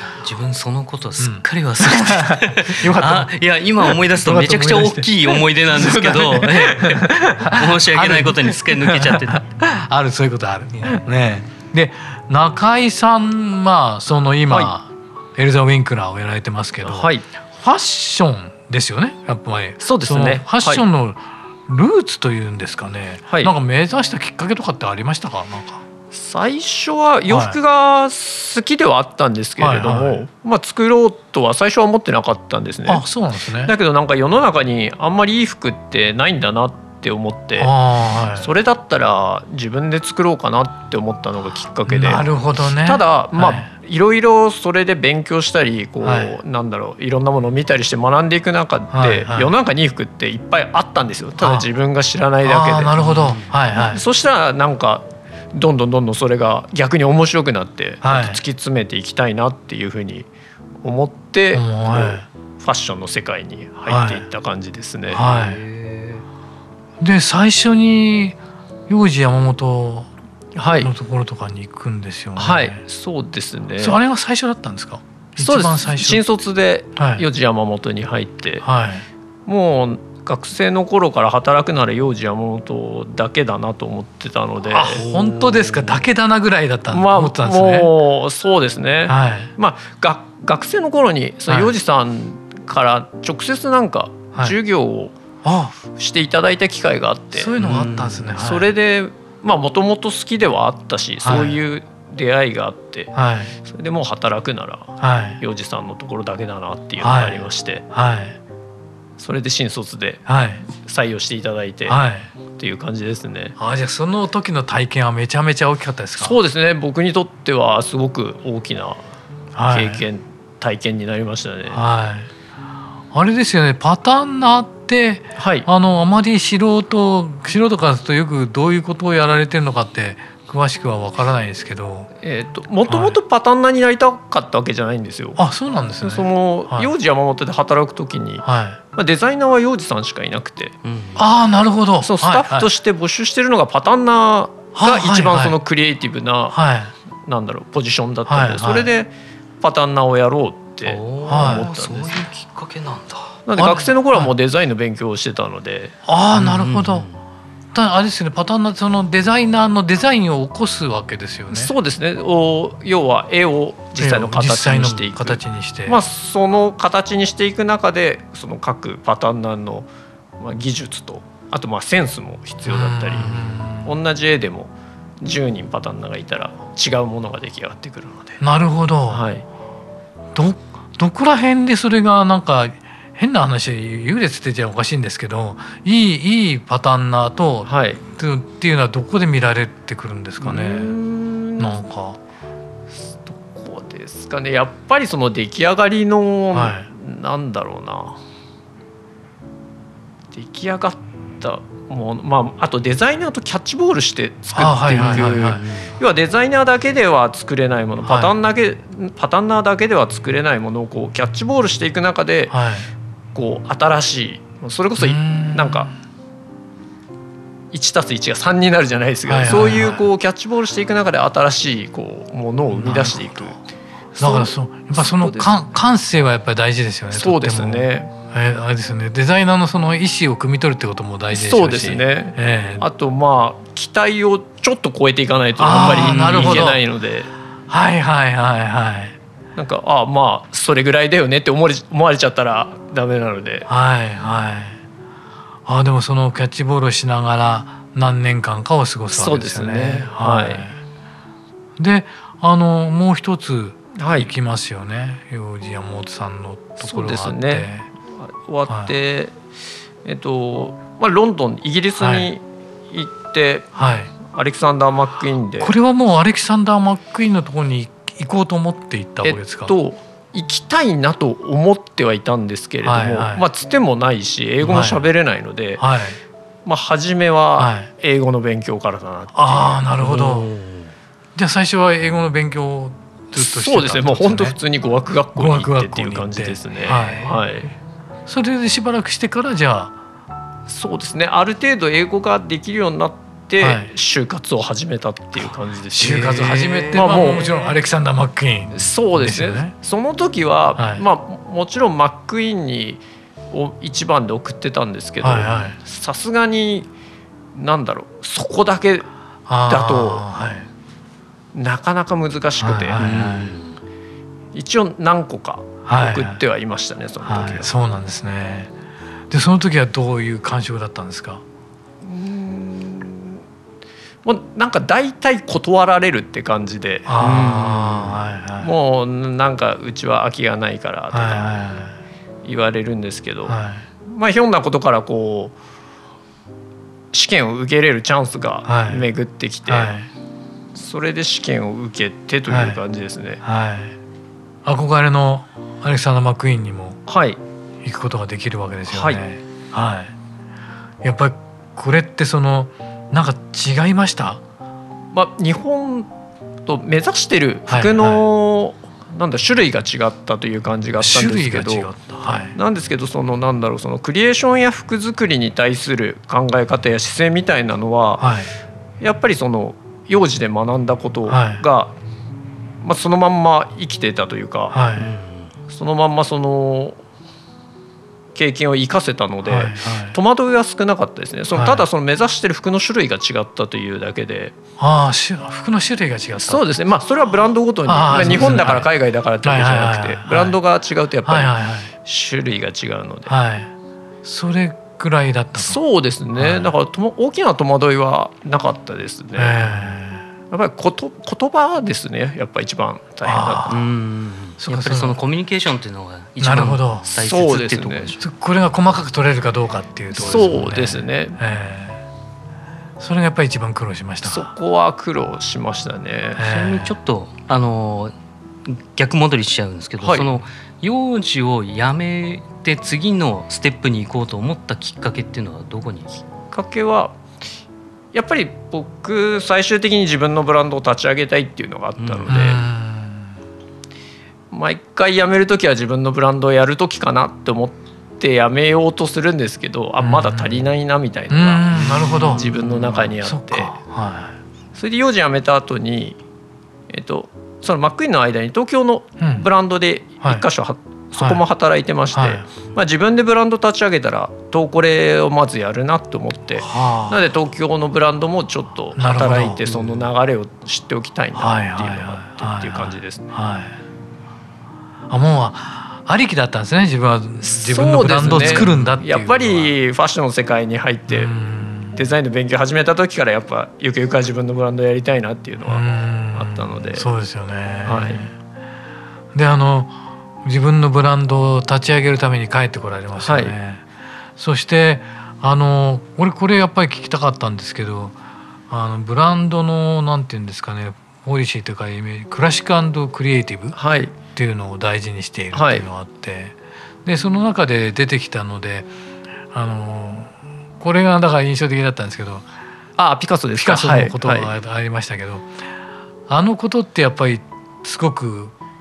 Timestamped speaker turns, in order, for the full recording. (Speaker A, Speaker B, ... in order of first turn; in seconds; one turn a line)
Speaker A: 0.2-9.4
Speaker B: 1.2-25.8
Speaker C: 16.8-17.2
Speaker C: 19.8-20.8
Speaker C: 23.3-23.5
Speaker C: 26.1-33.1
Speaker B: 27.3-27.6
Speaker B: 29.6-30.2
Speaker B: 32.9-33.7
Speaker C: 33.6-37.7
Speaker B: 37.6-38.5
Speaker C: 38.3-42.2
Speaker B: 41.9-43.7
Speaker C: 42.8-53.0
Speaker B: 46.0-46.3
Speaker B: 48.9-49.5
Speaker B: 51.4-51.7
Speaker B: 52.4-54.0
Speaker A: 53.0-53.5
Speaker C: 53.8-60.3
Speaker B: 58.0-58.4
Speaker C: 60.8-65.2
Speaker B: 61.5-62.2
Speaker B: 63.9-64.2
Speaker B: 65.1-65.6
Speaker A: 65.2-66.2
Speaker B: 67.0-70.1
Speaker C: 70.6-70.9
Speaker B: 70.8-72.8
Speaker C: 72.3-74.0
Speaker B: 73.8-76.2
Speaker C: 75.4-78.7
Speaker B: 77.0-77.2
Speaker B: 78.6-79.1
Speaker C: 79.5-85.1
Speaker B: 84.6-87.9
Speaker C: 86.9-95.2
Speaker B: 89.1-89.5
Speaker B: 91.5-91.7
Speaker B: 95.4-95.8
Speaker C: 95.9-97.6
Speaker B: 97.3-98.7
Speaker A: 97.6-98.3
Speaker C: 98.3-107.8
Speaker B: 101.2-101.6
Speaker B: 103.1-103.5
Speaker B: 105.0-105.4
Speaker B: 107.0-108.4
Speaker C: 109.2-112.0
Speaker B: 110.2-110.6
Speaker B: 111.9-112.3
Speaker C: 112.5-113.6
Speaker B: 113.6-116.4
Speaker C: 116.2-119.0
Speaker B: 119.5-120.0
Speaker C: 119.7-121.8
Speaker B: 121.7-122.3
Speaker B: 123.1-132.1
Speaker C: 125.4-125.7
Speaker C: 132.2-135.4
Speaker B: 132.9-133.2
Speaker B: 135.4-136.9
Speaker C: 136.0-140.8
Speaker B: 138.4-138.8
Speaker A: 140.8-141.2
Speaker B: 141.2-142.7
Speaker C: 142.0-146.6
Speaker B: 144.8-145.6
Speaker B: 146.5-146.9
Speaker C: 147.2-152.2
Speaker B: 148.3-148.9
Speaker A: 150.8-153.9
Speaker B: 151.3-151.7
Speaker C: 153.4-155.9
Speaker B: 156.1-157.1
Speaker A: 156.3-157.2
Speaker B: 157.7-161.7
Speaker C: 161.5-169.9
Speaker B: 164.0-166.0
Speaker C: 170.4-178.4
Speaker B: 172.7-173.9
Speaker B: 178.4-179.2
Speaker C: 179.1-179.4
Speaker B: 180.3-191.0
Speaker C: 187.6-188.0
Speaker C: 190.4-191.8
Speaker B: 191.6-192.2
Speaker C: 192.9-198.2
Speaker B: 196.5-196.9
Speaker C: 200.3-212.6
Speaker B: 204.5-205.7
Speaker A: 204.9-205.9
Speaker B: 208.0-208.3
Speaker B: 212.5-212.9
Speaker C: 213.3-215.9
Speaker B: 215.0-215.9
Speaker C: 217.7-223.6
Speaker B: 219.3-220.0
Speaker B: 222.7-223.6
Speaker B: 224.1-232.9
Speaker C: 224.2-225.6
Speaker C: 227.1-228.1
Speaker C: 231.3-237.3
Speaker B: 235.6-236.8
Speaker A: 235.9-236.7
Speaker B: 237.7-239.2
Speaker C: 239.5-243.7
Speaker B: 243.7-244.8
Speaker B: 245.7-250.8
Speaker C: 249.1-250.7
Speaker B: 251.8-257.9
Speaker C: 253.9-254.3
Speaker C: 256.8-259.4
Speaker C: 260.0-265.7
Speaker B: 262.0-262.3
Speaker B: 263.8-264.1
Speaker B: 265.6-269.7
Speaker C: 269.2-275.9
Speaker B: 272.8-273.4
Speaker B: 274.6-275.1
Speaker B: 275.8-276.2
Speaker C: 276.6-280.3
Speaker B: 277.6-277.9
Speaker B: 279.4-280.5
Speaker A: 280.3-280.7
Speaker B: 281.4-284.6
Speaker C: 283.4-287.7
Speaker B: 285.4-287.4
Speaker A: 286.9-287.2
Speaker B: 288.3-289.9
Speaker C: 290.7-297.5
Speaker B: 293.6-293.9
Speaker B: 295.9-299.7
Speaker A: 297.1-297.5
Speaker C: 298.7-306.9
Speaker B: 300.8-301.0
Speaker B: 305.2-305.8
Speaker C: 307.5-309.1
Speaker B: 309.5-310.7
Speaker C: 309.7-310.2
Speaker C: 311.5-313.0
Speaker B: 312.6-313.5
Speaker A: 313.0-313.7
Speaker C: 314.5-317.7
Speaker B: 315.9-316.4
Speaker B: 317.2-318.7
Speaker B: 319.3-321.4
Speaker C: 322.0-323.4
Speaker C: 324.2-327.6
Speaker B: 327.1-328.7
Speaker A: 327.2-328.1
Speaker C: 328.6-331.5
Speaker B: 331.1-332.0
Speaker C: 332.4-335.5
Speaker B: 333.5-333.8
Speaker C: 337.1-339.9
Speaker B: 338.6-339.1
Speaker B: 339.7-340.1
Speaker C: 340.8-343.4
Speaker B: 342.5-342.8
Speaker B: 343.4-343.9
Speaker B: 344.6-347.0
Speaker C: 347.1-347.4
Speaker B: 347.8-350.1
Speaker C: 348.9-349.2
Speaker B: 351.0-354.4
Speaker C: 355.1-356.1
Speaker C: 356.6-361.9
Speaker B: 357.7-358.2
Speaker B: 361.0-362.5
Speaker C: 362.5-368.3
Speaker B: 368.2-368.5
Speaker C: 369.0-371.9
Speaker B: 371.3-371.6
Speaker C: 372.8-374.8
Speaker B: 374.7-375.1
Speaker A: 374.9-375.5
Speaker C: 375.7-377.0
Speaker C: 378.4-384.5
Speaker B: 379.4-380.2
Speaker B: 381.5-381.9
Speaker B: 384.8-386.8
Speaker C: 386.5-393.3
Speaker B: 387.9-388.9
Speaker B: 389.4-390.6
Speaker B: 391.2-391.9
Speaker B: 393.3-393.7
Speaker B: 394.2-395.8
Speaker C: 395.5-399.9
Speaker B: 396.4-396.7
Speaker B: 399.4-400.3
Speaker C: 400.5-403.9
Speaker B: 403.2-403.7
Speaker A: 403.7-408.2
Speaker B: 404.6-405.2
Speaker B: 406.4-407.1
Speaker C: 407.1-408.1
Speaker B: 408.2-412.0
Speaker C: 410.1-411.4
Speaker B: 413.0-414.5
Speaker C: 414.2-416.4
Speaker B: 416.4-416.9
Speaker A: 416.4-418.1
Speaker A: 418.6-426.2
Speaker C: 420.0-420.3
Speaker C: 426.5-427.1
Speaker C: 428.1-432.6
Speaker A: 432.0-432.4
Speaker B: 432.3-433.4
Speaker C: 434.5-443.7
Speaker B: 440.0-440.6
Speaker B: 441.3-442.5
Speaker A: 441.9-443.1
Speaker B: 443.1-444.4
Speaker C: 444.8-446.2
Speaker C: 446.9-463.3
Speaker B: 449.2-449.5
Speaker B: 451.2-451.4
Speaker B: 452.1-452.4
Speaker B: 456.6-457.2
Speaker B: 458.9-460.0
Speaker B: 461.4-463.8
Speaker B: 465.1-469.7
Speaker C: 467.4-471.3
Speaker B: 471.1-472.0
Speaker C: 471.9-477.1
Speaker B: 475.7-478.3
Speaker C: 477.9-478.2
Speaker B: 479.3-483.8
Speaker C: 483.2-483.5
Speaker B: 484.4-488.1
Speaker B: 488.7-498.9
Speaker C: 493.7-494.1
Speaker C: 495.5-495.9
Speaker B: 499.5-502.4
Speaker C: 503.0-504.5
Speaker B: 503.6-505.5
Speaker B: 506.3-508.5